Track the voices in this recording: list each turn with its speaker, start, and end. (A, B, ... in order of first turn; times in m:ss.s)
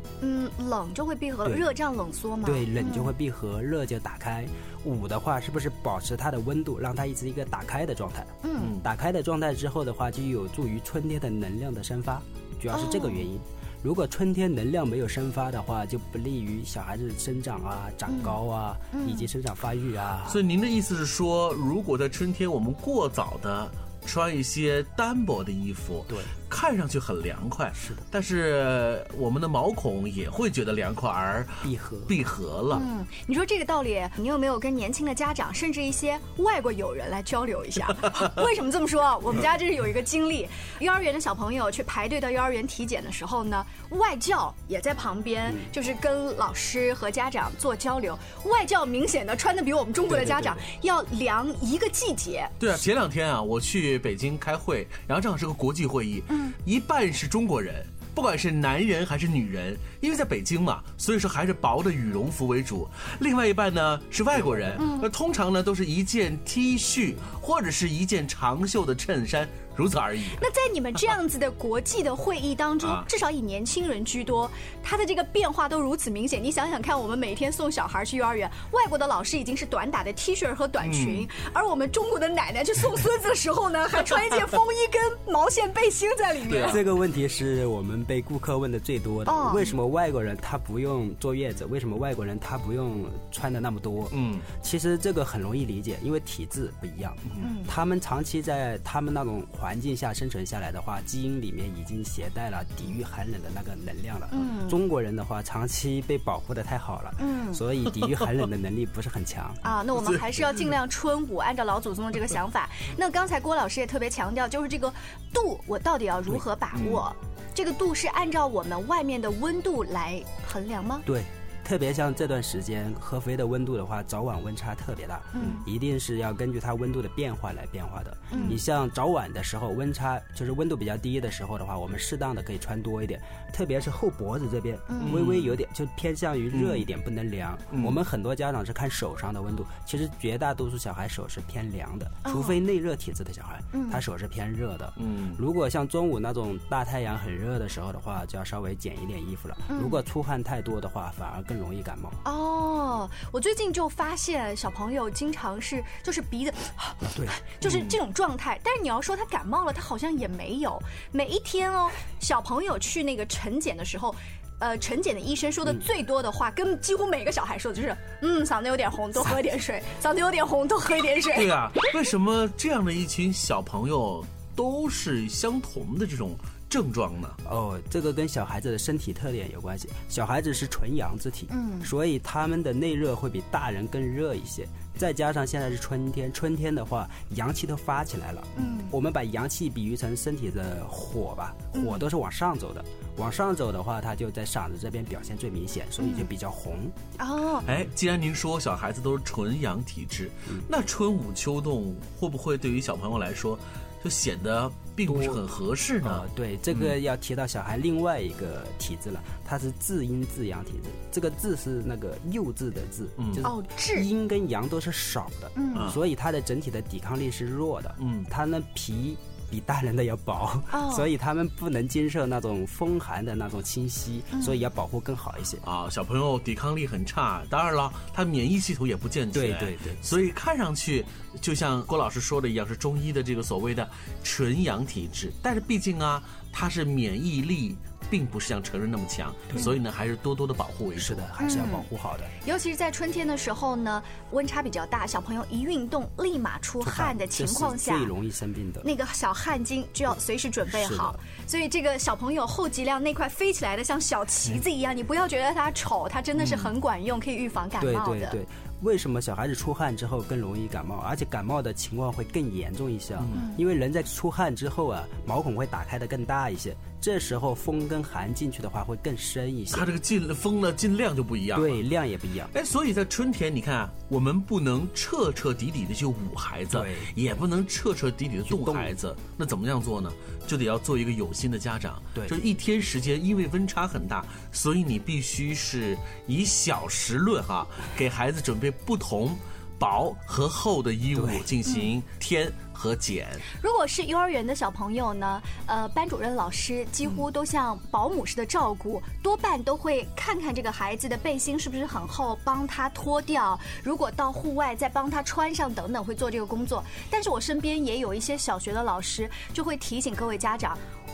0:00.2-0:03.1 A
0:01.4-0:01.7 B
0:02.4-0:20.4 B
0:08.4-0:08.8 A
0:08.6-0:08.8 C
0:12.7-0:13.3 A
0:18.1-0:18.4 A
0:18.9-0:19.3 A
0:20.3-0:32.8 C
0:26.1-0:26.3 B
0:27.7-0:28.0 B
0:31.6-0:32.2 B
0:32.7-0:52.5 A
0:45.4-0:45.7 B
0:50.0-0:50.6 B
0:52.6-1:10.4 C
0:56.3-0:56.6 A
1:04.8-1:05.1 A
1:10.4-1:26.8 A
1:12.8-1:13.1 C
1:20.8-1:21.3 C
1:26.5-1:26.8 C
1:26.6-1:49.7 B
1:29.3-1:29.7 A
1:34.1-1:34.5 C
1:37.4-1:37.7 A
1:44.3-1:44.8 A
1:47.2-1:47.6 A
1:48.1-1:48.4 C
1:49.6-2:01.0 A
1:49.9-1:50.7 C
1:56.7-1:57.0 C
2:01.0-2:32.2 B
2:05.3-2:05.6 A
2:08.3-2:08.6 A
2:08.3-2:08.6 C
2:14.9-2:15.2 A
2:15.0-2:15.6 C
2:16.5-2:16.9 C
2:17.7-2:18.0 C
2:22.2-2:22.6 A
2:23.7-2:24.0 A
2:25.0-2:25.4 C
2:29.7-2:30.0 A
2:32.2-2:51.6 A
2:37.0-2:37.4 B
2:37.6-2:38.0 C
2:51.3-2:57.4 C
2:57.4-3:16.9 B
3:01.5-3:01.9 A
3:08.6-3:08.9 A
3:11.7-3:12.0 A
3:16.0-3:16.3 A
3:17.2-3:17.7 A
3:17.6-3:27.0 C
3:25.0-3:25.5 B
3:26.0-3:45.6 B
3:33.2-3:33.5 C
3:33.4-3:34.1 A
3:35.6-3:35.9 A
3:35.7-3:36.0 C
3:38.0-3:38.3 C
3:40.7-3:41.1 A
3:44.3-3:44.6 A
3:45.6-4:01.3 C
3:49.3-3:50.3 B
4:01.0-4:02.3 B
4:01.4-4:01.9 A
4:02.4-4:08.1 A
4:06.8-4:08.9 B
4:08.8-4:18.4 A
4:10.6-4:11.2 B
4:16.4-4:16.7 C
4:17.8-4:29.9 B
4:23.2-4:23.4 C
4:23.3-4:23.6 A
4:29.7-4:31.8 C
4:31.5-4:32.5 B
4:32.5-4:53.4 C
4:36.7-4:37.4 B
4:38.5-4:38.9 B
4:42.1-4:42.4 B
4:51.1-4:51.5 B
4:53.5-5:10.8 A